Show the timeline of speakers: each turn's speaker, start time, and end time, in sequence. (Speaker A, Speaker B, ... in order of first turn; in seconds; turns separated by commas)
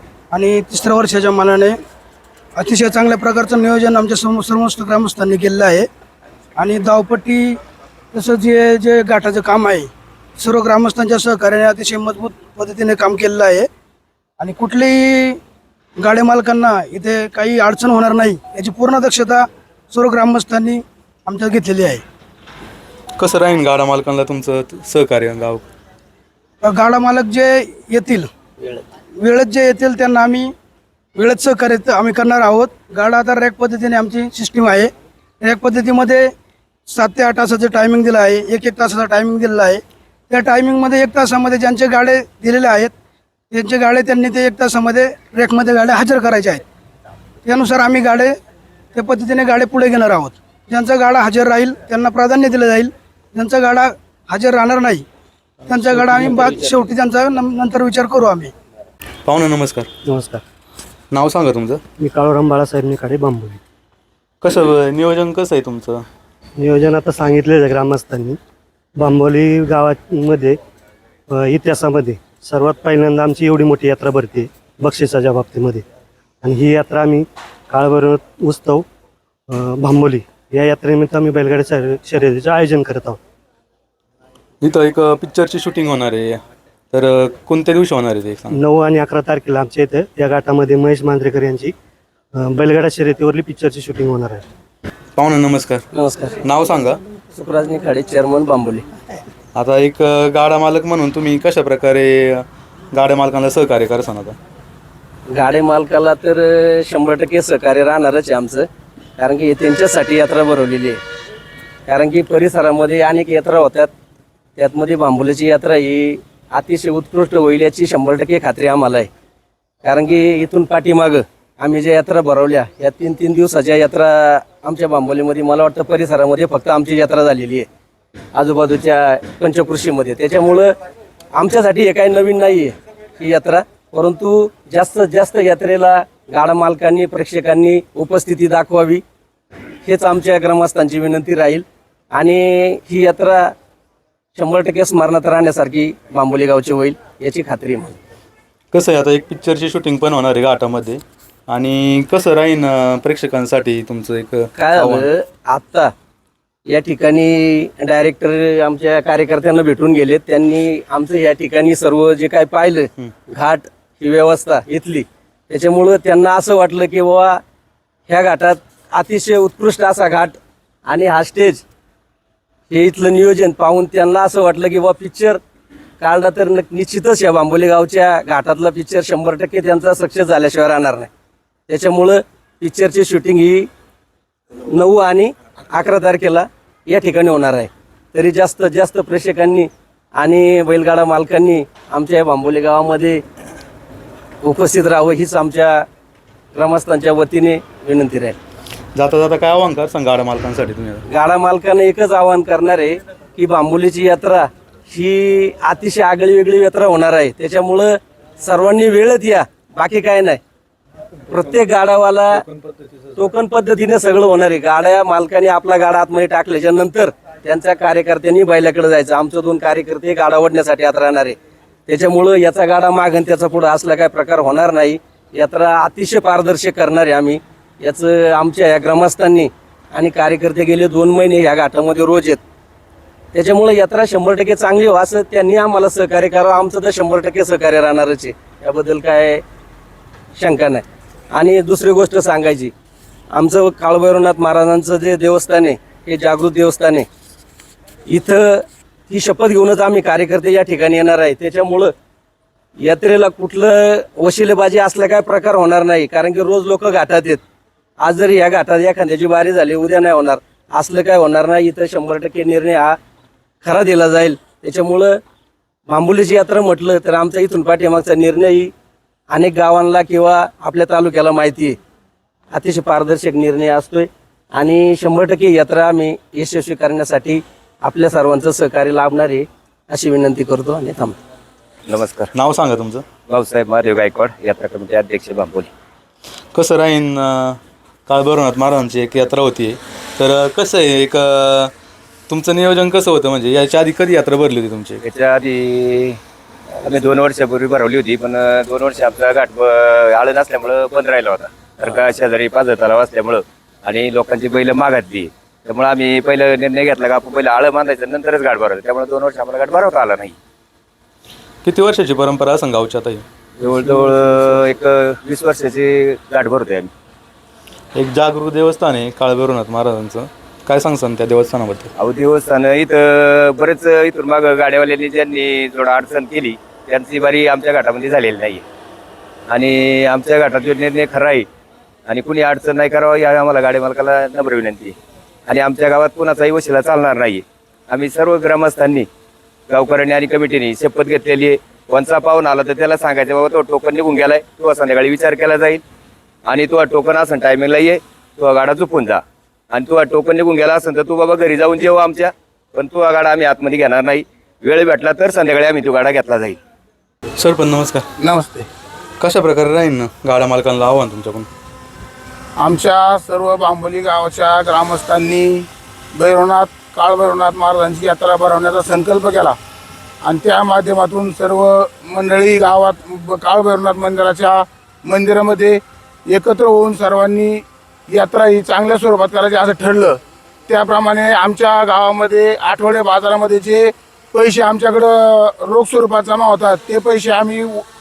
Speaker A: 0.3-1.8, Speaker A: 2.5-5.9, Speaker A: 6.6-7.6, Speaker A: 8.1-13.7, Speaker A: 14.4-15.4, Speaker A: 16.0-22.0, Speaker B: 23.2-25.7, Speaker A: 26.6-28.3, Speaker A: 29.2-30.5, Speaker A: 31.1-36.3, Speaker A: 36.9-42.9, Speaker A: 43.5-46.6, Speaker A: 47.5-48.3, Speaker A: 48.9-55.0, Speaker A: 55.7-58.5, Speaker B: 59.2-59.9, Speaker C: 60.1-60.4, Speaker B: 61.1-61.8, Speaker C: 62.0-63.6, Speaker B: 64.4-66.0, Speaker C: 66.6-68.4, Speaker C: 69.0-70.6, Speaker C: 71.3-75.8, Speaker C: 76.4-78.8, Speaker C: 79.5-83.2, Speaker B: 84.6-86.4, Speaker B: 86.9-88.6, Speaker C: 88.5-91.7, Speaker C: 92.4-94.4, Speaker B: 95.2-95.9, Speaker D: 95.9-96.4, Speaker B: 96.4-97.0, Speaker D: 97.3-98.8, Speaker B: 99.5-104.4, Speaker D: 105.3-108.7, Speaker D: 109.2-111.0, Speaker D: 111.9-113.9, Speaker D: 114.5-119.1, Speaker D: 119.8-127.7, Speaker D: 128.3-130.7, Speaker D: 131.3-139.0, Speaker D: 139.8-143.5, Speaker D: 144.3-148.0, Speaker B: 148.7-155.1, Speaker D: 154.6-155.9, Speaker D: 156.7-167.4, Speaker D: 168.1-171.6, Speaker D: 172.7-175.4, Speaker D: 176.0-181.1, Speaker D: 181.7-183.7, Speaker D: 184.7-193.2, Speaker D: 194.4-195.9, Speaker D: 196.5-198.4, Speaker B: 198.9-201.0, Speaker D: 201.1-210.4, Speaker D: 211.3-212.4, Speaker D: 213.2-221.4, Speaker D: 221.9-232.4, Speaker D: 233.3-239.4, Speaker D: 240.4-242.7, Speaker D: 243.3-247.1, Speaker D: 248.1-251.9, Speaker D: 252.8-257.4, Speaker D: 258.0-263.0, Speaker D: 263.6-265.2, Speaker D: 265.9-268.7, Speaker D: 269.3-271.8, Speaker D: 272.5-281.1, Speaker E: 281.9-282.3, Speaker B: 282.3-283.0, Speaker E: 283.3-285.7, Speaker B: 286.5-291.7, Speaker B: 292.3-295.0, Speaker E: 295.0-296.2, Speaker E: 296.8-310.4, Speaker B: 311.6-313.2, Speaker E: 313.6-316.9, Speaker B: 317.9-321.9, Speaker E: 322.0-328.6, Speaker E: 329.5-331.4, Speaker E: 332.1-334.9, Speaker E: 335.5-339.1, Speaker E: 339.7-345.8, Speaker E: 346.5-356.6, Speaker B: 357.4-358.1, Speaker F: 358.2-358.7, Speaker B: 359.2-361.5, Speaker F: 362.6-369.6, Speaker F: 370.2-387.9